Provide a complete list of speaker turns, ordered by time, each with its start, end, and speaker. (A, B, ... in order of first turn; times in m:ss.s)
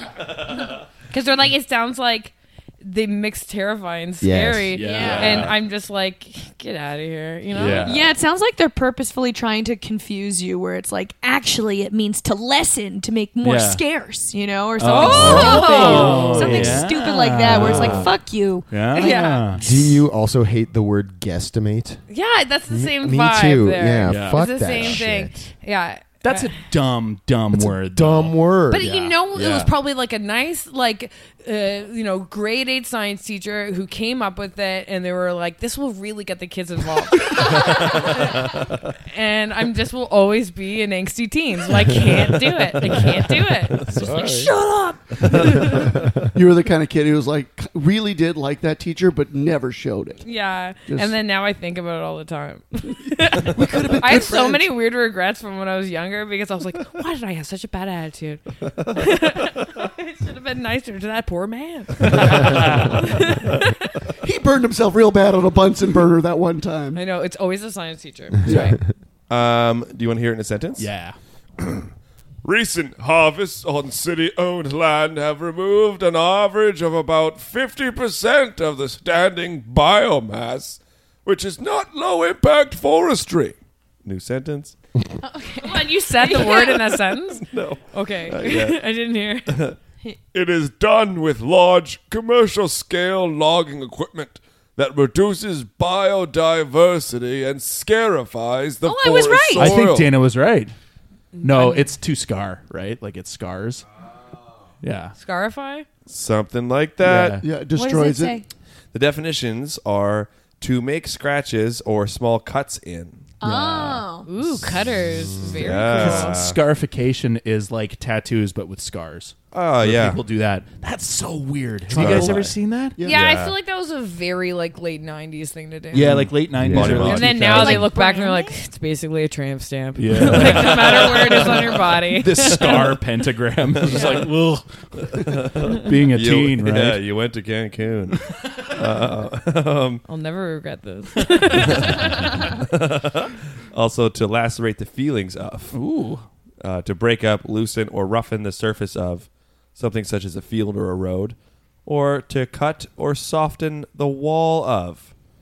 0:01.1-0:07.9 A
0:04.2-0:04.8 B
0:04.7-0:05.5 C
0:04.8-0:05.3 D
0:05.0-0:05.5 E
0:07.5-0:08.0 E
0:07.7-0:19.9 D
0:13.4-0:13.8 C
0:14.8-0:19.6 C
0:14.8-0:16.7 A
0:17.6-0:18.1 E
0:18.9-0:19.5 A
0:19.6-0:22.0 B
0:22.1-0:26.6 A
0:22.7-0:25.5 B
0:24.0-0:25.0 C
0:26.2-0:29.1 C
0:27.5-0:29.1 B
0:28.7-0:38.4 A
0:29.3-0:29.7 E
0:37.6-0:38.0 E
0:39.0-0:44.6 A
0:43.8-0:44.5 E
0:44.0-0:45.0 D
0:45.2-0:46.0 E
0:45.2-0:45.9 A
0:45.9-0:50.2 F
0:50.2-1:04.0 A
0:50.8-0:51.1 F
0:53.4-0:54.7 F
1:02.4-1:03.0 C
1:04.2-1:07.0 F
1:06.9-1:08.8 A
1:08.4-1:08.8 F
1:09.3-1:10.9 E
1:10.8-1:11.2 C
1:11.6-1:11.9 E
1:12.4-1:24.8 E
1:25.2-1:27.0 D
1:25.6-1:29.6 A
1:27.4-1:28.8 E
1:29.5-1:29.8 E
1:30.3-1:40.1 E
1:38.8-1:39.8 D
1:39.5-1:40.7 C
1:41.4-1:43.8 C
1:41.5-1:41.7 D
1:44.8-1:45.1 C
1:45.2-1:45.8 A
1:46.1-1:47.4 E
1:47.0-1:47.4 C
1:47.4-1:48.4 F
1:47.7-1:48.4 D
1:48.9-1:53.2 E
1:53.4-1:54.3 D
1:54.2-1:56.4 A
1:55.2-1:55.7 B
1:55.5-1:56.6 E
1:55.8-2:03.0 C
1:59.5-2:00.2 E
2:01.9-2:02.4 F
2:01.9-2:03.5 E
2:03.0-2:06.3 A
2:05.9-2:07.9 C
2:06.0-2:07.7 E
2:06.6-2:07.1 B
2:07.0-2:12.9 A
2:07.4-2:08.5 D
2:10.0-2:17.0 C
2:10.2-2:11.4 E
2:13.9-2:14.2 A
2:15.1-2:20.0 E
2:20.1-2:22.4 A
2:21.6-2:25.8 E
2:25.7-2:26.2 C
2:26.6-2:35.1 E